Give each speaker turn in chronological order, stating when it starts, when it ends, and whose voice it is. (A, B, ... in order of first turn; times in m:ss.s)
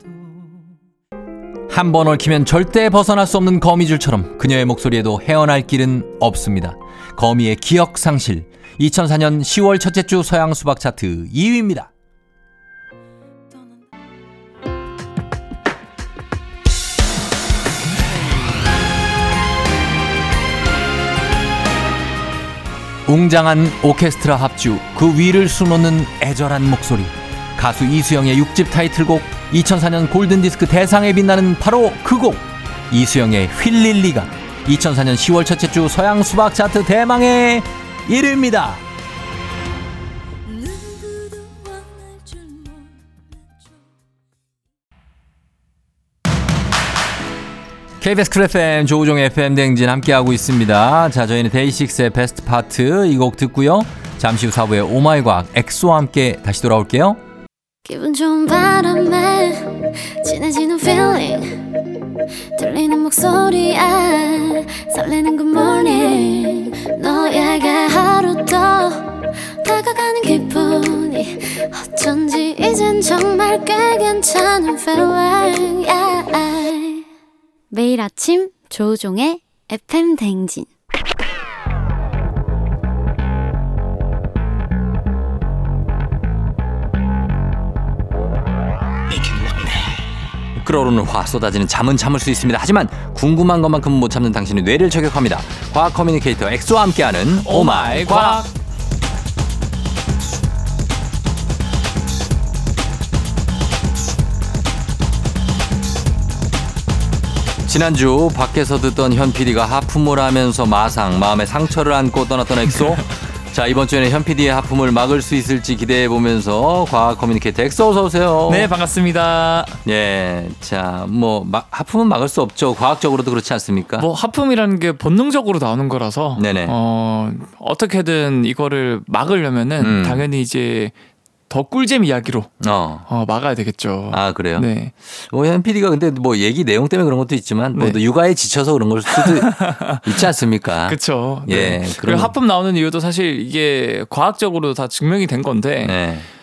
0:01.7-0:11.9 A
0:23.0-0:38.8 A
0:48.0-0:57.2 A
0:57.8-1:01.7 B
1:02.6-1:17.0 B
1:17.7-1:20.7 B
1:30.6-1:38.4 A
1:37.4-1:38.5 C
1:47.6-1:58.7 A
1:58.5-1:59.8 C
1:59.8-2:04.1 A
2:04.0-2:10.9 C
2:06.4-2:06.8 A
2:09.8-2:10.2 A
2:11.5-2:12.5 C
2:12.6-2:13.1 A
2:13.1-2:14.9 C
2:14.1-2:22.4 A
2:19.1-2:20.2 C
2:20.8-2:26.0 C
2:25.8-2:26.3 A